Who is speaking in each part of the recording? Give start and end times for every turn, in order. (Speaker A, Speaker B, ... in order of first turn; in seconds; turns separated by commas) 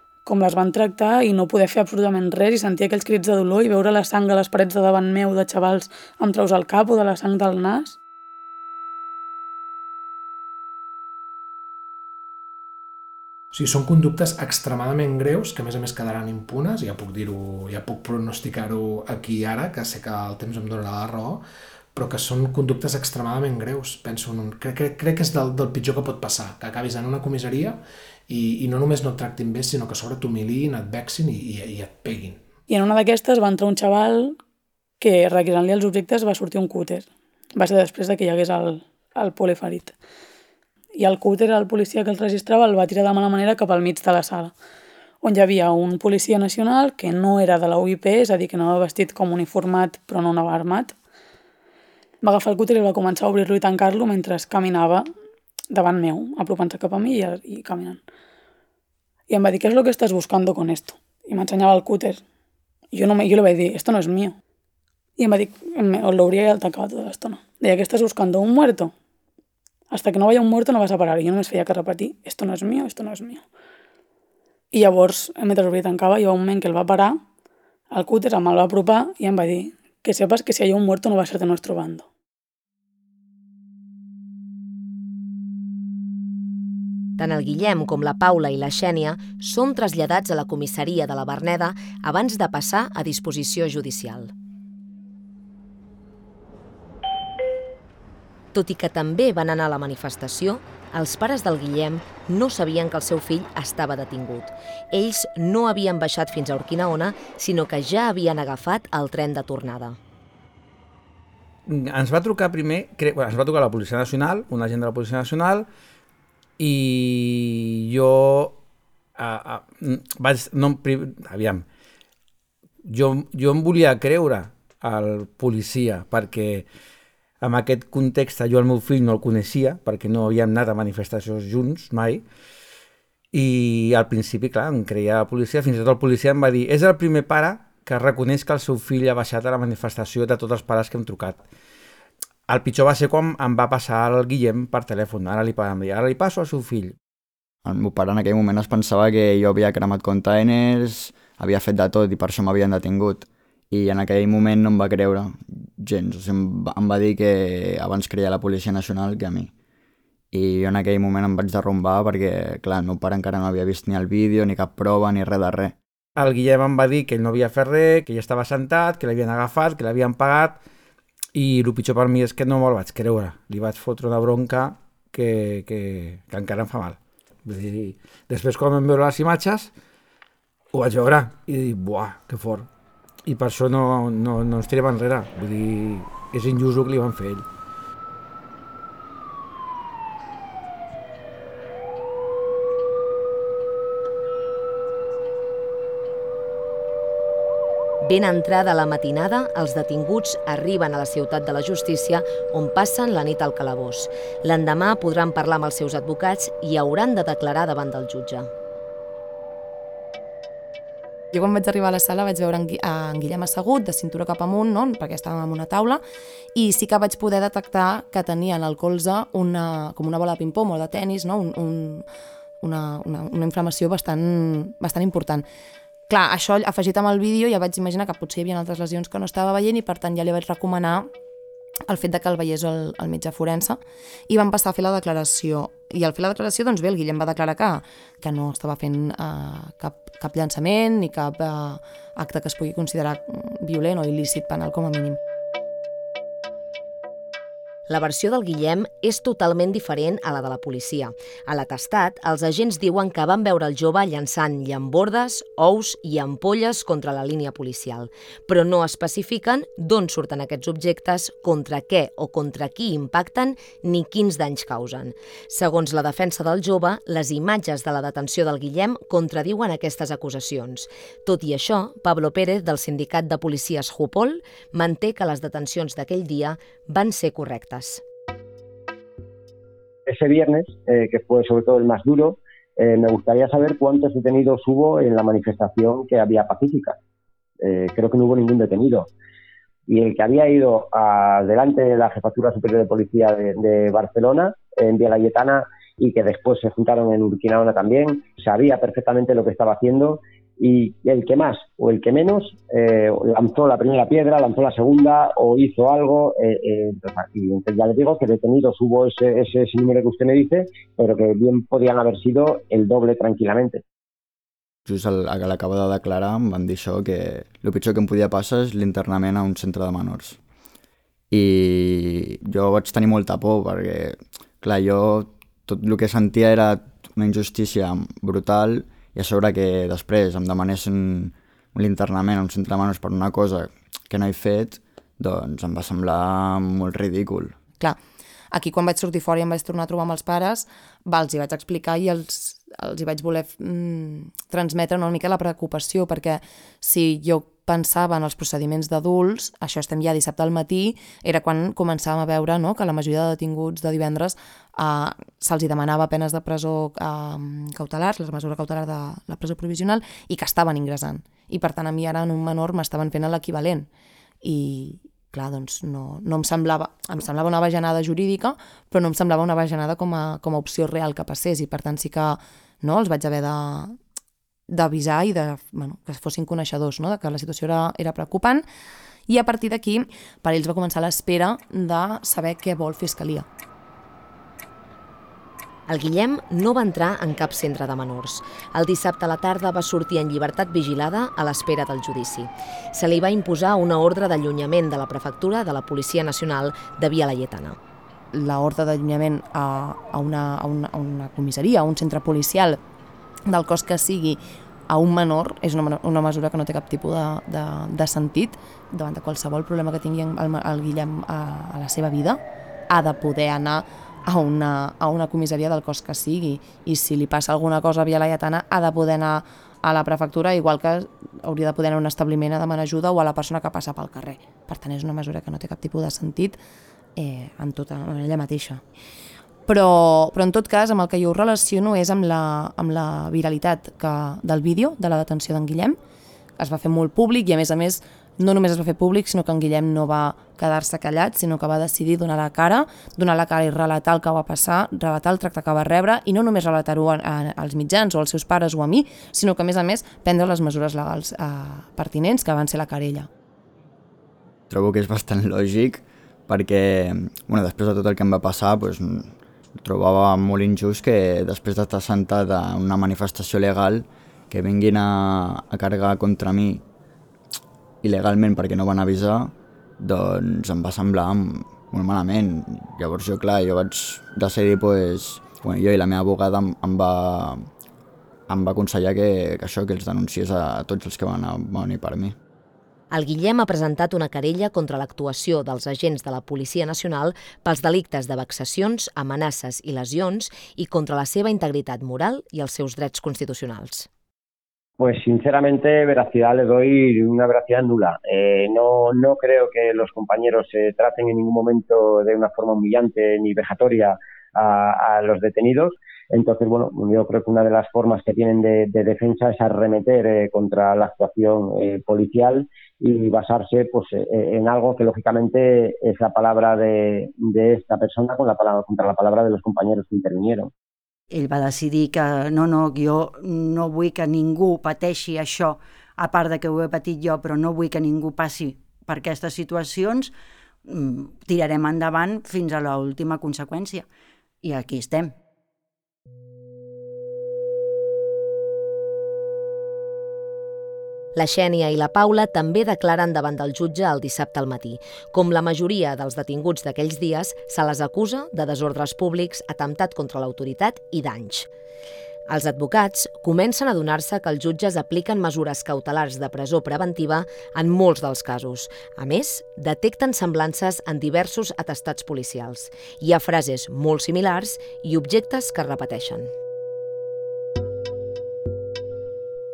Speaker A: 0.3-8.0, Speaker B: 13.5-21.4, Speaker B: 21.9-32.4, Speaker A: 32.7-34.4, Speaker A: 35.0-39.9, Speaker A: 41.0-44.5, Speaker A: 45.2-50.9, Speaker A: 52.2-55.0, Speaker A: 55.7-58.0, Speaker A: 59.3-62.2, Speaker A: 62.9-64.4, Speaker A: 65.2-68.9, Speaker A: 69.9-73.4, Speaker A: 74.7-77.2, Speaker A: 77.9-82.1, Speaker C: 87.2-94.3, Speaker C: 98.5-110.0, Speaker D: 111.7-115.7, Speaker D: 116.6-118.6, Speaker D: 119.2-121.7, Speaker D: 122.8-126.7, Speaker D: 127.4-132.2, Speaker D: 133.3-141.4, Speaker D: 142.5-147.0, Speaker E: 147.7-159.5, Speaker E: 160.3-165.8, Speaker D: 166.2-170.6, Speaker D: 171.3-179.7, Speaker D: 180.7-182.7, Speaker D: 183.3-187.5, Speaker C: 198.0-208.5, Speaker F: 211.3-216.0, Speaker F: 216.6-222.1, Speaker F: 222.6-225.5, Speaker F: 226.1-231.1, Speaker F: 231.9-245.2, Speaker C: 247.9-278.0, Speaker G: 280.1-287.0, Speaker G: 287.6-289.1, Speaker G: 289.9-313.8, Speaker E: 314.9-320.4, Speaker E: 321.3-337.6, Speaker F: 338.5-363.9, Speaker F: 364.4-374.0, Speaker F: 374.7-378.7, Speaker F: 379.3-383.5, Speaker C: 385.9-397.8, Speaker F: 398.3-402.8, Speaker F: 403.5-426.6, Speaker F: 427.2-428.8, Speaker F: 429.7-436.0, Speaker F: 436.6-453.3, Speaker E: 454.7-466.8, Speaker E: 468.0-477.7, Speaker E: 478.5-482.4, Speaker C: 483.1-494.1, Speaker G: 495.0-520.7, Speaker H: 521.3-530.3, Speaker H: 530.9-534.1, Speaker H: 534.6-535.4, Speaker C: 541.4-551.7, Speaker C: 552.5-566.5